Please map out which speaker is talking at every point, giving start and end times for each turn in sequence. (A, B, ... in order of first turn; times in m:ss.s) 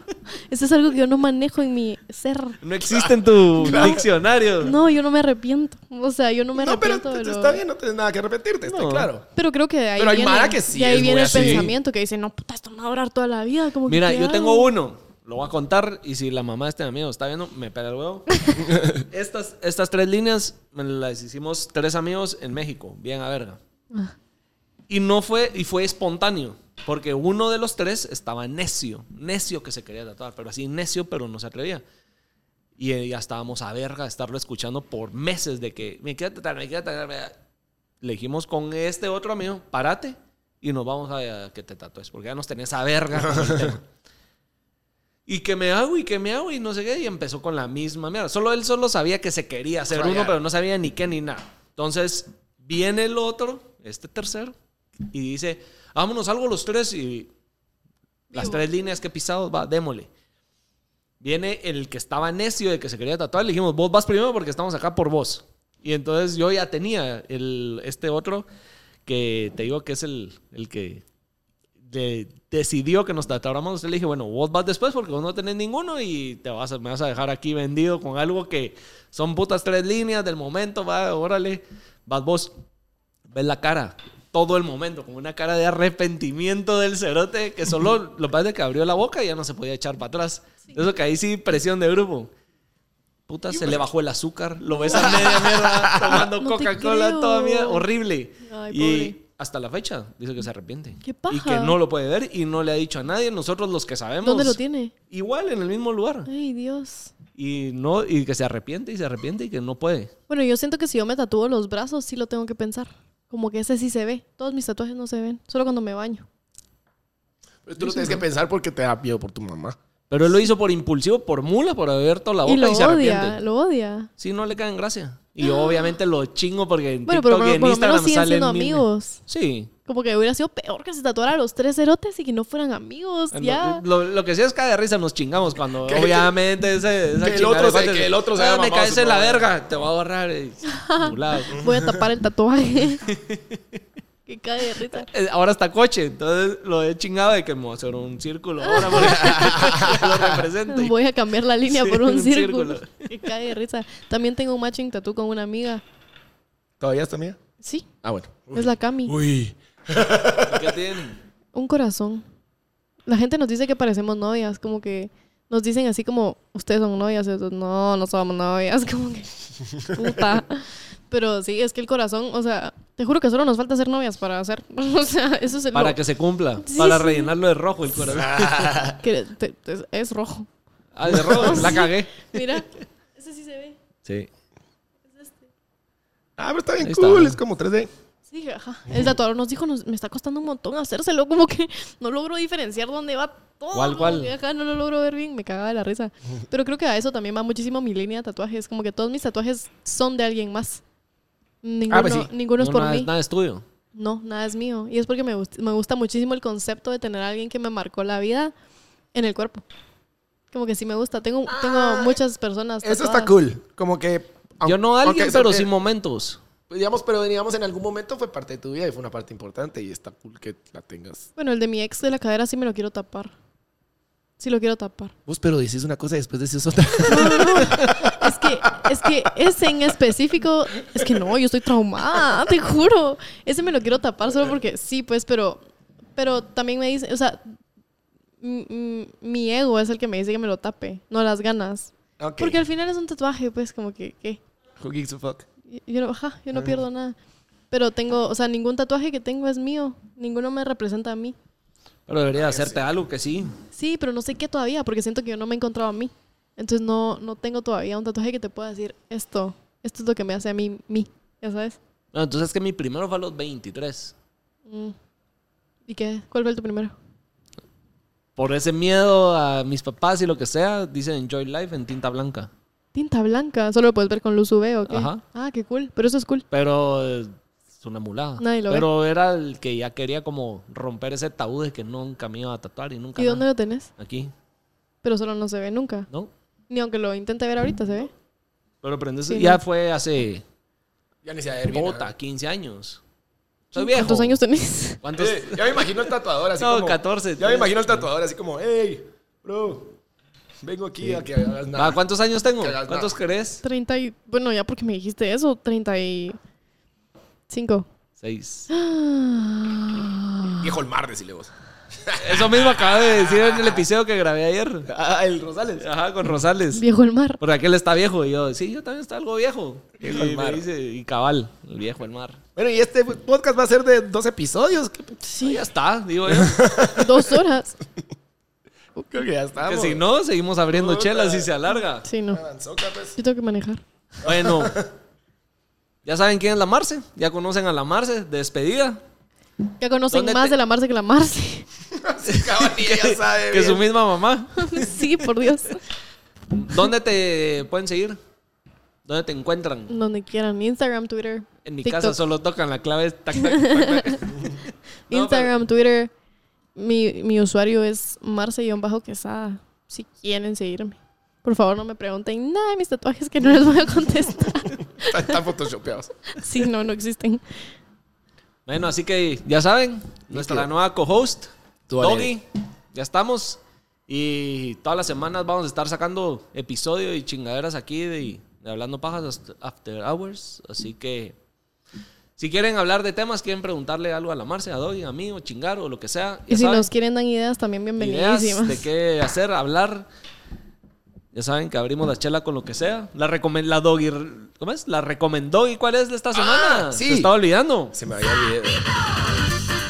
0:00.5-0:02.6 A
0:02.6-0:04.8 B
0:02.8-0:04.0 C
0:03.6-0:04.0 A
0:04.6-0:07.6 A
0:06.5-0:09.2 C
0:08.6-0:09.1 B
0:09.3-0:14.7 A
0:10.0-0:11.7 C
0:11.3-0:11.7 B
0:13.8-0:23.6 B
0:24.9-0:31.8 B
0:32.8-0:37.4 B
0:38.0-0:43.8 B
0:43.2-0:43.8 C
0:45.2-0:57.3 B
0:49.9-0:50.3 C
0:58.3-1:00.1 B
0:58.3-0:58.6 A
1:01.2-1:08.5 B
1:09.0-1:11.0 B
1:11.8-1:22.5 B
1:23.3-1:32.3 B
1:33.3-1:46.3 B
1:33.5-1:33.8 C
1:34.7-1:37.8 A
1:34.9-1:36.2 C
1:38.4-1:39.2 A
1:41.0-1:41.8 A
1:44.2-1:44.9 A
1:46.3-1:47.1 A
1:47.4-1:50.1 B
1:50.3-1:56.2 A
1:57.6-1:59.8 C
1:57.8-1:58.2 A
2:00.1-2:03.4 B
2:02.4-2:04.1 A
2:04.2-2:09.7 B
2:05.4-2:05.9 A
2:07.1-2:09.2 A
2:09.8-2:13.8 A
2:13.3-2:21.6 B
2:15.8-2:16.4 C
2:17.2-2:19.5 C
2:20.6-2:23.0 A
2:21.6-2:22.0 C
2:23.0-2:23.8 B
2:24.3-2:25.1 A
2:24.9-2:30.9 B
2:28.6-2:29.8 A
2:29.3-2:30.4 C
2:30.7-2:35.8 A
2:31.6-2:33.1 B
2:36.8-2:37.4 C
2:37.6-2:37.9 A
2:38.0-2:40.7 C
2:38.5-2:39.1 A
2:40.4-2:41.2 B
2:41.5-2:42.2 A
2:43.1-2:56.0 A
2:55.7-2:58.8 B
2:56.6-2:57.3 A
2:58.1-2:59.0 C
2:59.0-3:00.5 A
3:00.9-3:02.5 B
3:01.1-3:01.6 C
3:01.1-3:03.8 A
3:04.0-3:04.3 B
3:05.0-3:05.3 A
3:06.4-3:07.9 C
3:06.8-3:07.4 B
3:08.3-3:20.8 A
3:13.7-3:14.3 B
3:21.6-3:23.1 A
3:21.9-3:23.6 B
3:23.9-3:28.5 A
3:29.1-3:29.6 A
3:30.5-3:33.3 A
3:31.5-3:32.2 C
3:32.8-3:35.7 C
3:34.6-3:36.4 B
3:36.7-3:41.3 C
3:41.4-3:43.3 A
3:44.4-3:45.1 A
3:45.3-3:48.9 C
3:47.1-3:55.6 A
3:56.2-3:57.5 A
3:58.4-4:04.4 A
4:02.2-4:02.6 C
4:04.8-4:05.4 C
4:05.7-4:07.2 A
4:07.7-4:11.3 A
4:12.1-4:13.5 B
4:12.3-4:12.8 C
4:13.7-4:21.8 A
4:22.1-4:24.1 B
4:24.7-4:24.9 A
4:25.9-4:26.9 A
4:28.4-4:32.5 B
4:32.9-4:36.4 A
4:34.9-4:35.2 B
4:36.5-4:43.4 B
4:38.4-4:38.9 A
4:43.2-4:43.9 A
4:44.0-4:44.3 B
4:45.0-4:46.1 A
4:46.7-4:48.1 A
4:48.8-4:50.4 B
4:49.3-4:49.6 A
4:51.2-4:52.1 C
4:51.7-4:53.0 B
4:53.7-4:54.4 B
4:53.7-4:55.0 A
4:55.0-4:55.9 B
4:55.1-4:59.9 C
4:56.6-4:58.0 B
5:00.6-5:02.0 C
5:01.0-5:03.6 B
5:02.6-5:03.1 C
5:03.6-5:06.4 A
5:07.5-5:07.9 A
5:08.2-5:08.7 B
5:08.7-5:10.7 A
5:10.6-5:11.5 C
5:12.0-5:13.8 C
5:12.2-5:14.9 B
5:14.8-5:15.9 C
5:15.8-5:16.8 B
5:16.7-5:17.4 A
5:17.4-5:22.4 B
5:20.0-5:20.6 C
5:22.6-5:25.2 C
5:25.2-5:25.6 A
5:25.4-5:26.6 B
5:26.3-5:27.4 C
5:26.9-5:27.8 A
5:29.1-5:30.0 C
5:29.6-5:32.1 B
5:30.7-5:31.5 C
5:32.0-5:32.4 A
5:32.3-5:33.2 C
5:33.2-5:33.8 A
5:34.2-5:34.8 B
5:34.2-5:34.9 C
5:36.0-5:39.0 B
5:39.8-5:41.7 A
5:40.1-5:40.5 B
5:41.9-5:43.8 C
5:42.2-5:44.9 B
5:44.6-5:45.8 A
5:46.5-5:48.2 B
5:49.0-5:49.9 B
5:49.9-5:52.2 A
5:51.6-5:54.4 B
5:53.3-5:54.3 A
5:55.1-5:56.1 A
5:55.1-5:55.5 B
5:56.8-6:05.4 A
6:05.0-6:06.1 C
6:06.3-6:07.4 A
6:08.6-6:21.4 B
6:10.3-6:10.7 C
6:11.9-6:12.3 C
6:22.4-6:26.9 B
6:26.5-6:28.8 A
6:28.0-6:30.1 B
6:31.3-6:38.0 B
6:36.3-6:37.3 C
6:37.9-6:39.4 C